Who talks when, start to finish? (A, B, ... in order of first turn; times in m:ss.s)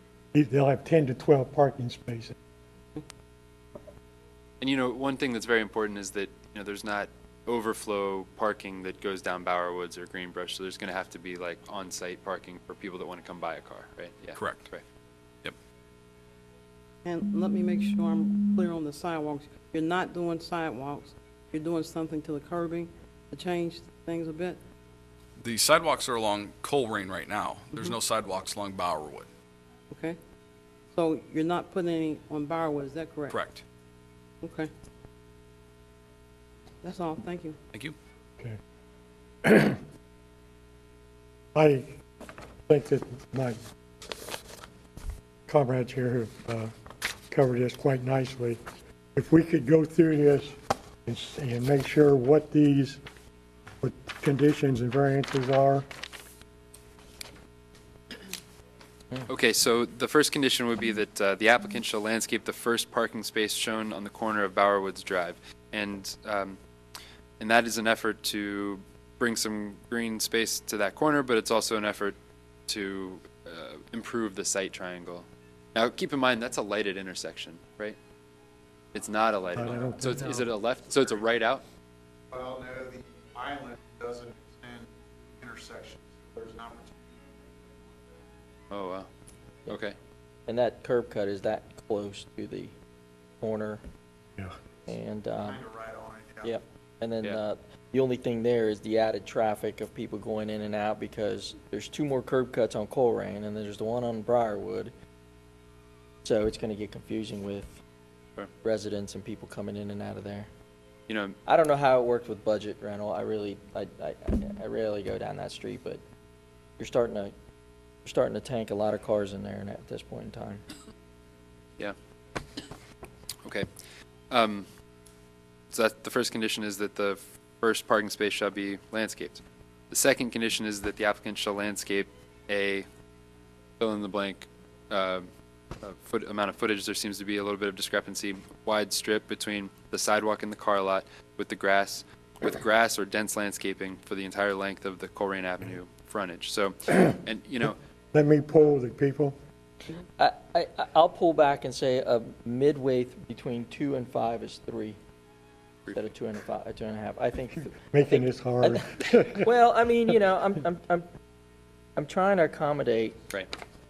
0:00.3-0:02.4 A
0:04.6-0:14.8 B
0:14.4-0:14.7 C
0:17.0-0:24.6 D
0:25.4-0:29.3 C
0:29.9-0:30.2 D
0:30.9-0:33.3 D
0:33.3-0:33.6 C
0:34.4-0:34.7 D
0:36.8-0:37.6 D
0:39.4-0:39.8 A
0:41.6-0:41.9 A
0:42.7-0:43.6 A
0:45.5-0:46.7 A
0:47.3-0:48.6 A
0:49.2-0:53.0 A
0:53.8-0:55.9 A
0:59.3-1:06.6 B
1:07.4-1:12.2 B
1:12.7-1:18.0 B
1:18.9-1:21.6 B
1:19.5-1:20.5 A
1:22.4-1:24.9 E
1:25.4-1:26.9 E
1:28.7-1:29.1 B
1:29.7-1:30.0 B
1:30.5-1:32.7 F
1:33.4-1:33.8 F
1:34.9-1:35.7 F
1:35.7-1:36.4 E
1:36.4-1:44.9 F
1:46.2-1:47.8 F
1:48.6-1:50.5 F
1:51.1-1:51.4 B
1:51.5-1:56.0 F
1:56.8-1:57.3 F
1:58.0-2:00.6 F
2:03.4-2:03.7 B
2:04.3-2:04.7 B
2:05.7-2:12.9 B
2:13.8-2:15.3 B
2:15.8-2:27.8 B
2:28.1-2:29.4 A
2:30.0-2:35.0 F
2:36.0-2:41.1 F
2:37.9-2:39.5 A
2:42.0-2:43.2 F